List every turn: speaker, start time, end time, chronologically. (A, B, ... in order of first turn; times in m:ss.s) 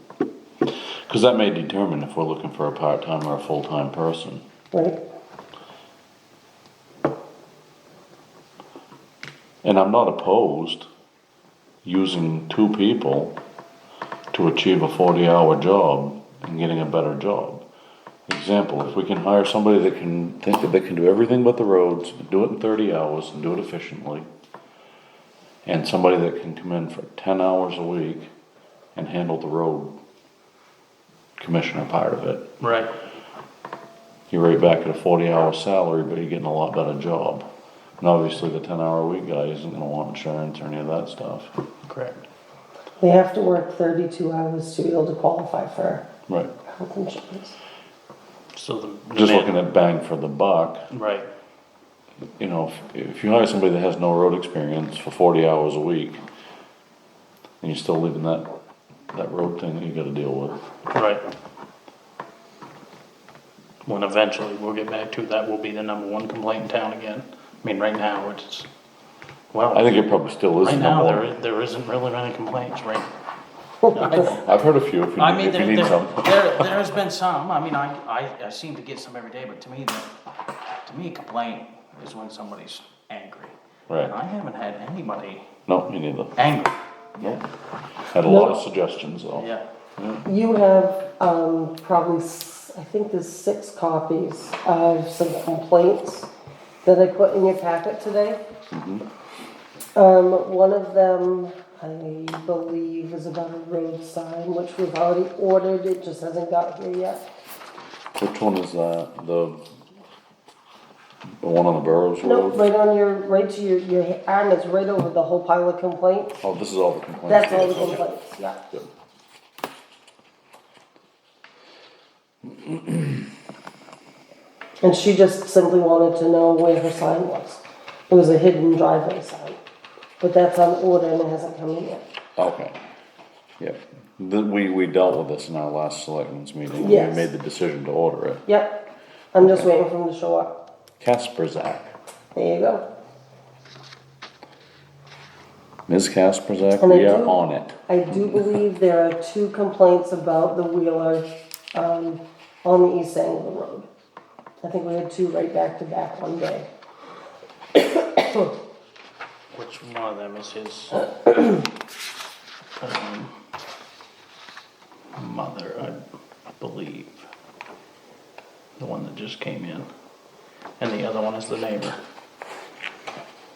0:00.6-0:04.4 A
0:04.7-0:05.0 B
0:09.6-0:10.9 A
0:11.8-0:13.4 A
0:14.3-0:17.6 A
0:18.3-0:24.3 A
0:25.6-0:28.3 A
0:28.9-0:29.9 A
0:31.4-0:32.4 A
0:32.6-0:32.9 C
0:34.3-0:37.5 A
0:38.0-0:41.5 A
0:41.9-0:42.2 C
0:43.0-0:46.0 B
0:46.7-0:47.6 B
0:48.5-0:49.6 C
0:49.1-0:50.8 A
0:50.9-0:51.3 C
0:52.4-0:56.2 A
0:57.6-0:58.5 A
0:59.1-1:00.6 A
1:00.9-1:01.2 C
1:03.8-1:08.7 C
1:09.5-1:13.1 C
1:09.7-1:11.3 A
1:13.9-1:14.4 C
1:14.1-1:16.6 A
1:15.2-1:20.1 C
1:20.8-1:25.5 C
1:23.9-1:24.1 A
1:25.7-1:26.3 A
1:26.4-1:26.7 C
1:27.2-1:27.4 A
1:28.1-1:29.5 A
1:28.2-1:28.6 B
1:28.2-1:28.7 C
1:29.3-1:29.6 C
1:30.0-1:30.2 A
1:30.2-1:36.3 B
1:36.8-1:38.4 B
1:38.7-1:39.0 A
1:40.0-1:47.2 B
1:48.2-1:49.6 A
1:51.4-1:52.7 A
1:52.2-1:56.4 B
1:56.4-1:58.0 A
1:57.3-1:58.6 B
2:02.4-2:03.2 A
2:04.8-2:09.6 B
2:10.2-2:12.0 B
2:12.4-2:12.8 A
2:13.6-2:18.4 A
2:16.7-2:17.3 B
2:18.4-2:20.6 B
2:19.4-2:19.7 A
2:21.0-2:21.9 A
2:22.3-2:22.8 B
2:25.9-2:28.5 A
2:26.8-2:33.9 B
2:34.6-2:36.7 B
2:37.7-2:38.5 B
2:39.5-2:41.5 C
2:42.8-2:43.3 C
2:45.2-2:47.3 C
2:48.8-2:49.9 C
2:50.8-2:52.0 C